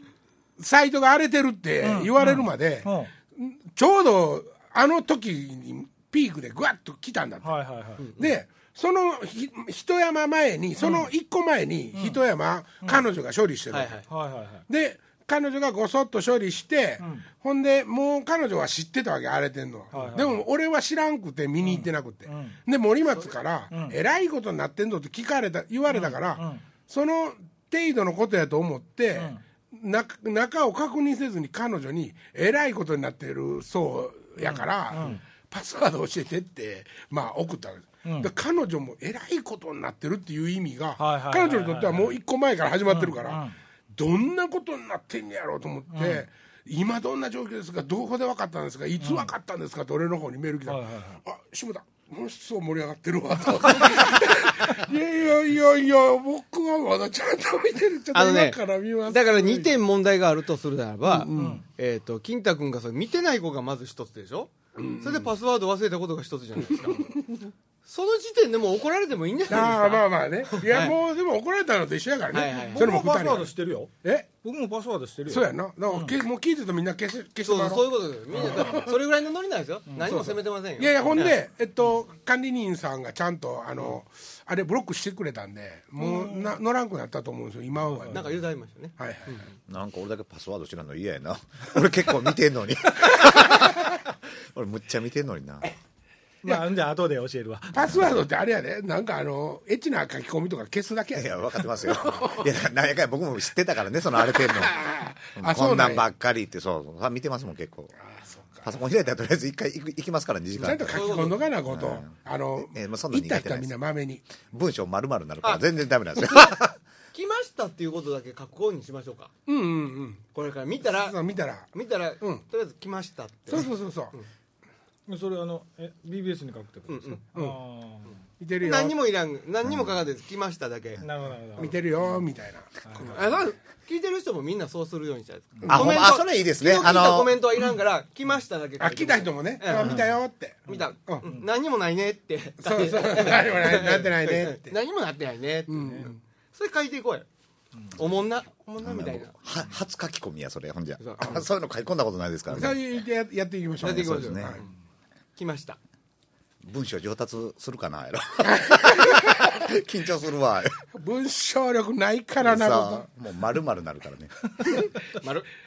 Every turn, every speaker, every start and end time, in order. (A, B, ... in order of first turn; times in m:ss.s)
0:00.6-0:07.6 A
0:01.8-0:03.1 B
0:07.4-0:08.0 B
0:08.0-0:08.3 C
0:08.1-0:14.0 A
0:10.8-0:11.1 B
0:11.9-0:12.2 B
0:13.7-0:14.1 C
0:14.1-0:14.6 B
0:14.7-0:43.4 A
0:19.9-0:20.4 B
0:21.6-0:22.6 B
0:23.7-0:24.0 B
0:25.9-0:26.6 B
0:29.2-0:29.4 B
0:34.4-0:35.2 B
0:38.0-0:38.3 B
0:41.0-0:42.2 B
0:42.9-0:43.6 B
0:43.9-0:59.8 A
0:45.9-0:46.2 B
0:49.0-0:49.3 B
0:50.6-0:51.2 B
0:58.1-1:07.2 C
1:01.0-1:01.6 A
1:01.3-1:01.6 B
1:04.8-1:05.3 A
1:07.8-1:11.0 C
1:09.5-1:13.5 A
1:12.3-1:13.0 C
1:12.5-1:16.2 B
1:14.0-1:14.3 A
1:15.3-1:19.0 A
1:17.4-1:21.4 C
1:20.0-1:28.3 A
1:26.0-1:26.6 B
1:28.1-1:29.4 C
1:29.0-1:29.4 A
1:29.7-1:35.7 D
1:36.4-1:38.0 B
1:37.7-1:42.5 A
1:37.8-1:38.2 D
1:41.1-1:44.8 D
1:44.3-1:46.0 A
1:45.3-1:47.9 D
1:48.0-1:48.7 A
1:48.6-1:51.1 D
1:50.6-1:54.2 A
1:50.6-1:51.4 C
1:51.7-1:53.7 D
1:54.4-1:56.8 D
1:56.2-1:56.6 C
1:57.1-1:59.3 C
1:59.5-2:00.2 A
2:00.3-2:01.2 C
2:00.8-2:02.4 A
2:01.7-2:04.2 C
2:03.5-2:04.2 A
2:05.1-2:08.2 B
2:06.9-2:07.2 C
2:08.4-2:09.0 A
2:08.6-2:11.0 C
2:11.0-2:11.8 B
2:11.6-2:13.4 A
2:12.8-2:13.2 B
2:13.0-2:20.1 C
2:15.6-2:15.9 A
2:15.6-2:17.5 D
2:18.8-2:21.3 A
2:19.8-2:20.0 B
2:20.6-2:27.2 C
2:20.7-2:21.4 B
2:22.6-2:24.8 A
2:25.7-2:26.2 A
2:25.8-2:26.1 B
2:27.9-2:29.3 C
2:28.8-2:32.8 D
2:31.0-2:31.4 C
2:32.5-2:34.6 A
2:33.8-2:34.6 D
2:33.8-2:34.7 C
2:35.4-2:35.8 C
2:36.6-2:40.8 D
2:38.4-2:39.5 A
2:40.9-2:43.0 A
2:42.4-2:44.8 D
2:45.2-2:45.5 C